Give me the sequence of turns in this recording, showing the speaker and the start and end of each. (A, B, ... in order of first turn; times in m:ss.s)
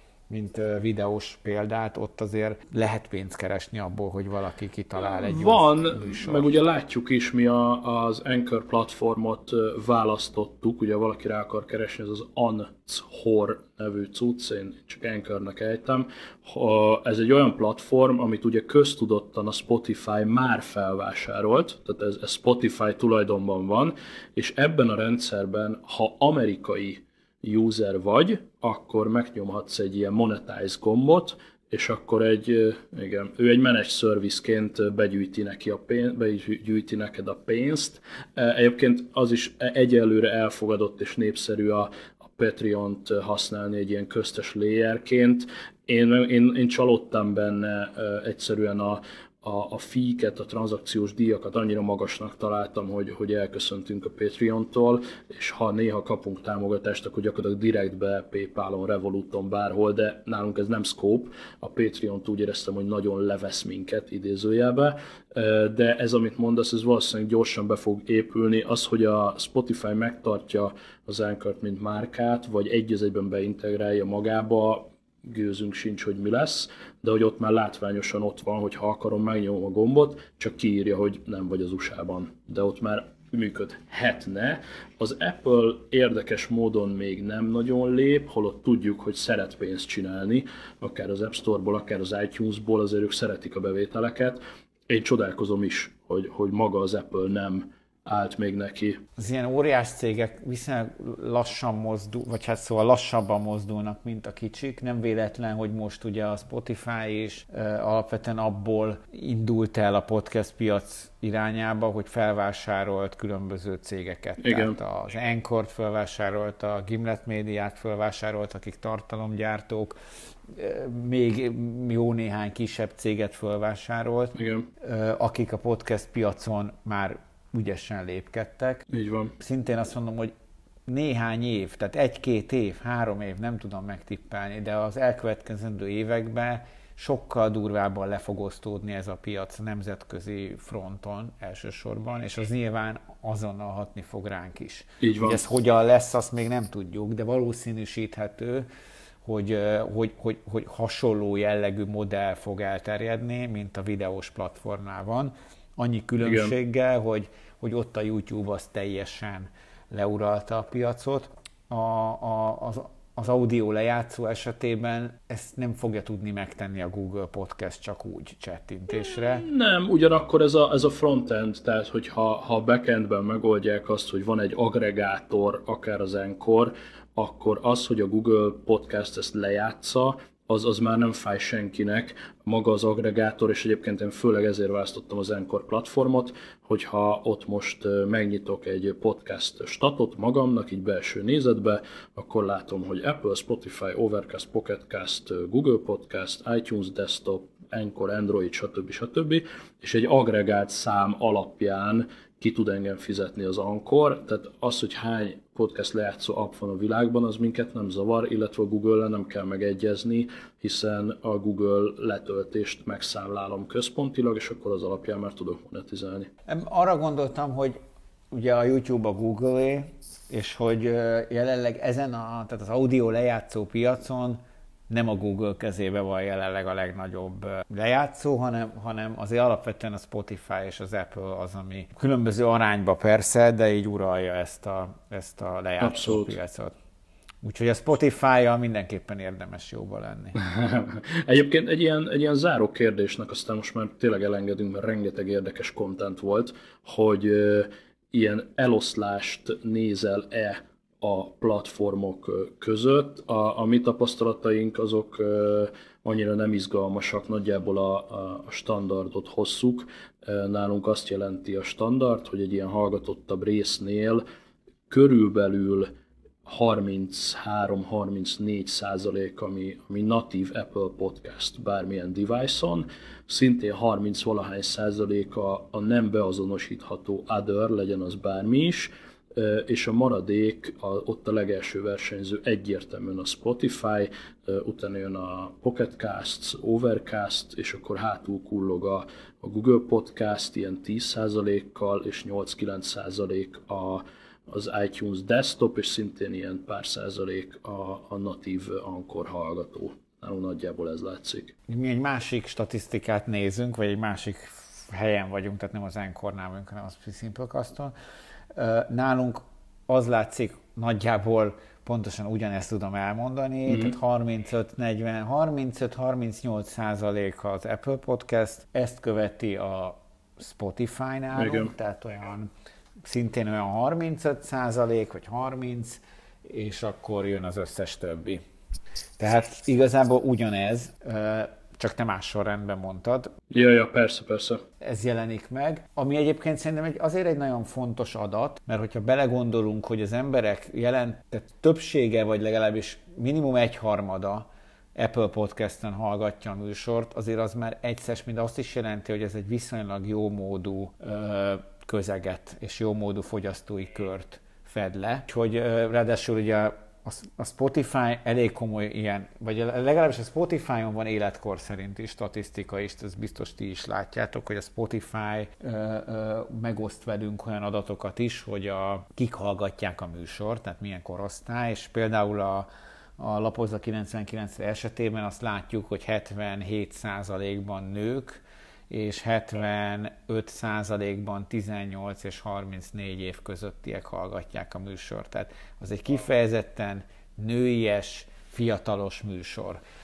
0:00.3-0:06.6 A
0:05.0-1:39.0 B
1:39.2-2:00.0 A
1:54.4-1:54.8 B
2:00.5-2:08.8 A
2:04.3-2:04.7 B
2:08.9-2:09.3 B
2:09.4-2:10.3 A
2:10.8-2:28.7 A
2:25.0-2:25.4 B
2:29.2-2:49.4 A
2:36.2-2:36.5 B
2:49.0-3:36.3 B
3:36.5-3:37.8 A
3:38.3-3:56.7 A
3:55.8-3:56.4 B
3:57.4-4:00.4 A
4:00.4-4:24.2 B
4:24.9-4:25.9 B
4:26.4-5:01.5 B
5:01.7-5:07.9 A
5:08.5-5:22.5 A
5:13.7-5:13.9 B
5:21.3-5:21.7 B
5:23.0-5:28.4 A
5:29.2-5:33.3 A
5:33.5-5:34.6 B
5:34.8-6:12.7 A
6:13.2-6:29.8 A